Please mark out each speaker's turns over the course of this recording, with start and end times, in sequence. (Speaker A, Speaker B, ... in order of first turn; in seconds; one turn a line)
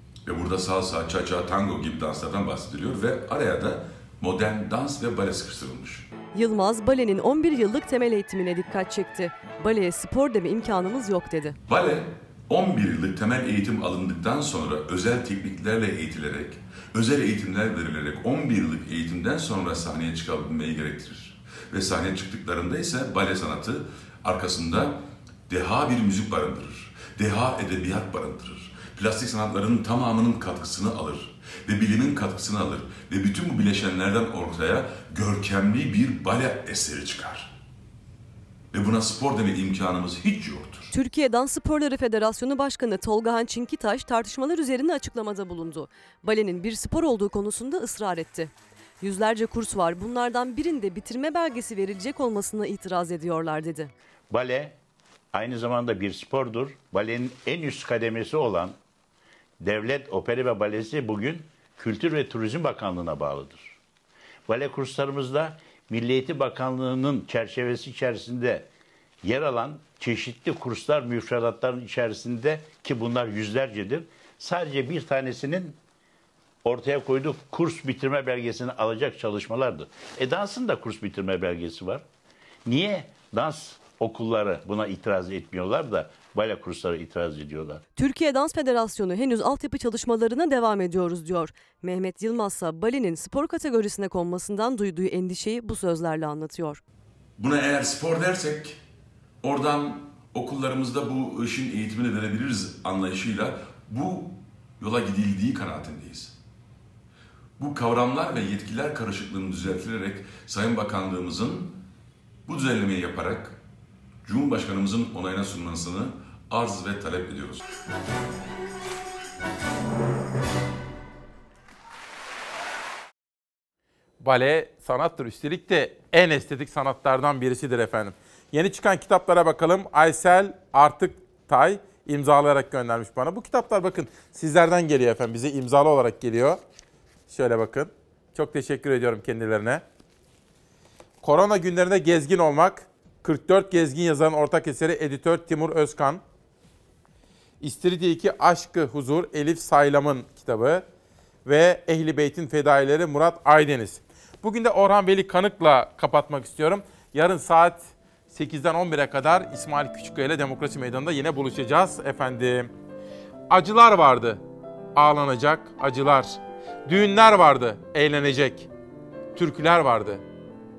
Speaker A: 0.2-6.1
Speaker B: 6.3-11.6
Speaker A: 11.7-37.5
Speaker A: 38.7-40.9
Speaker B: 40.9-48.5
Speaker B: 49.0-53.9
Speaker C: 54.3-54.7
Speaker C: 55.3-58.8
Speaker C: 59.6-63.7
Speaker C: 64.5-68.7
Speaker C: 69.2-75.8
Speaker C: 76.6-82.0
Speaker C: 82.7-87.8
Speaker B: 88.0-96.8
Speaker A: 97.4-98.8
Speaker A: 99.4-106.3
Speaker A: 107.6-111.8
Speaker A: 112.5-113.6
Speaker A: 114.2-117.6
Speaker D: 124.2-136.6
Speaker D: 137.3-139.8
Speaker D: 141.2-146.2
Speaker D: 147.6-150.8
Speaker D: 151.4-162.7
Speaker D: 163.5-164.4
Speaker D: 164.9-168.7
Speaker D: 169.3-170.2